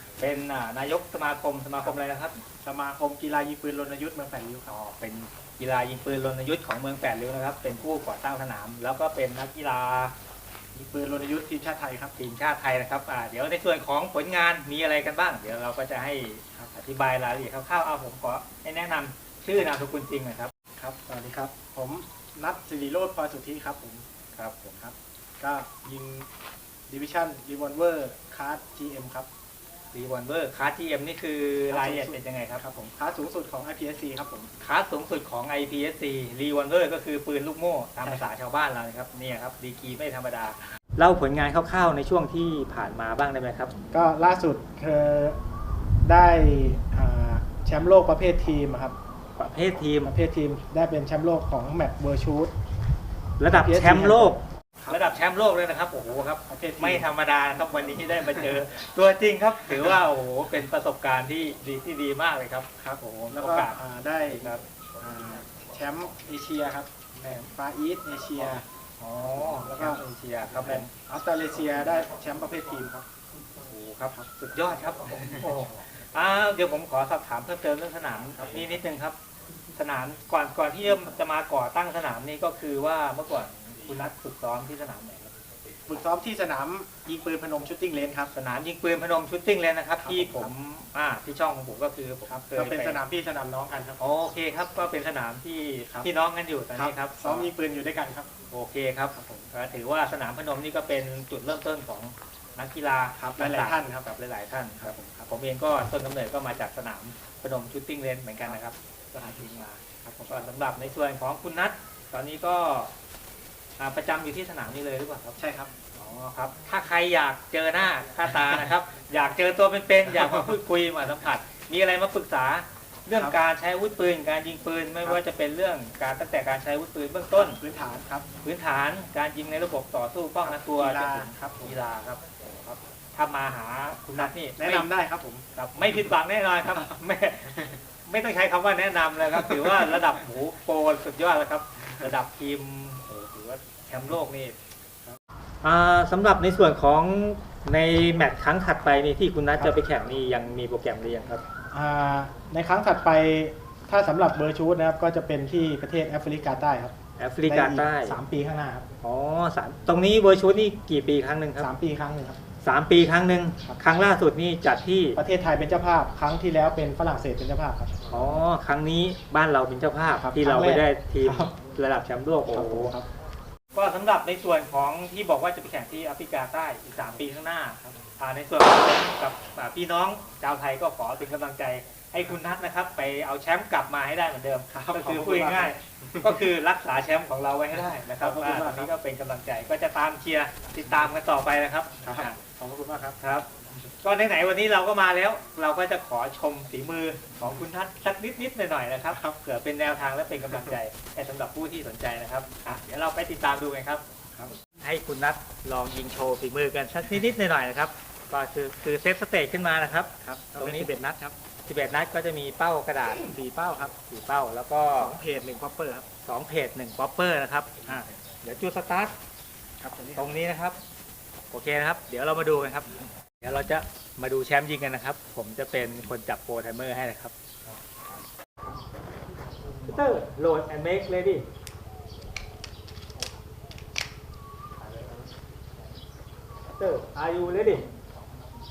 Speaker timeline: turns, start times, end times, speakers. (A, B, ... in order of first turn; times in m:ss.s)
0:00.2-0:02.4 A
0:02.6-0:04.7 B
0:04.7-0:10.2 A
0:10.7-0:12.1 B
0:12.2-0:20.5 A
0:20.8-0:24.0 B
0:24.4-0:24.8 A
0:24.8-0:26.3 B
0:26.9-0:29.3 B
0:29.9-0:32.6 A
0:31.7-0:34.5 B
0:34.6-0:43.7 A
0:38.0-0:38.3 B
0:43.9-0:45.4 B
0:46.0-0:49.0 B
0:49.4-0:50.1 A
0:50.0-0:52.5 B
0:53.4-1:04.6 A
0:53.5-0:55.0 B
0:56.5-0:57.1 B
1:02.8-1:08.7 B
1:09.0-1:10.9 A
1:09.6-1:10.0 B
1:10.7-1:13.1 B
1:13.6-1:19.2 A
1:19.8-1:25.3 A
1:25.9-1:28.3 B
1:28.3-1:33.0 A
1:30.0-1:30.5 B
1:32.3-1:34.0 B
1:34.0-1:37.5 A
1:36.8-1:38.3 B
1:38.5-1:52.9 A
1:39.2-1:39.5 B
1:43.2-1:44.1 B
1:44.8-1:45.3 B
1:50.0-1:50.5 B
1:53.8-1:55.4 A
1:55.4-1:55.7 B
1:56.0-2:07.6 A
2:07.3-2:08.3 B
2:08.4-2:12.2 A
2:10.4-2:11.7 B
2:13.2-2:14.9 A
2:14.2-2:15.4 B
2:15.5-2:24.6 A
2:25.6-2:31.4 A
2:31.7-2:38.9 B
2:37.2-2:38.2 A
2:39.0-2:41.7 A
2:41.6-2:42.4 B
2:42.6-2:45.2 A
2:45.2-2:48.1 B
2:48.1-2:52.9 A
2:50.2-2:51.6 B
2:52.5-2:53.1 B
2:53.7-3:12.4 A
3:04.7-3:06.3 B
3:08.1-3:08.9 B
3:12.0-3:13.2 B
3:13.2-3:13.5 A
3:14.0-3:24.0 A
3:24.8-3:31.0 A
3:30.2-3:31.3 B
3:31.7-3:33.3 A
3:33.2-3:33.9 B
3:34.0-3:35.2 A
3:35.0-3:36.1 B
3:36.2-3:39.2 A
3:39.8-3:40.3 B
3:40.2-3:40.8 A
3:41.5-3:47.4 A
3:49.8-3:51.5 A
3:56.8-3:57.9 A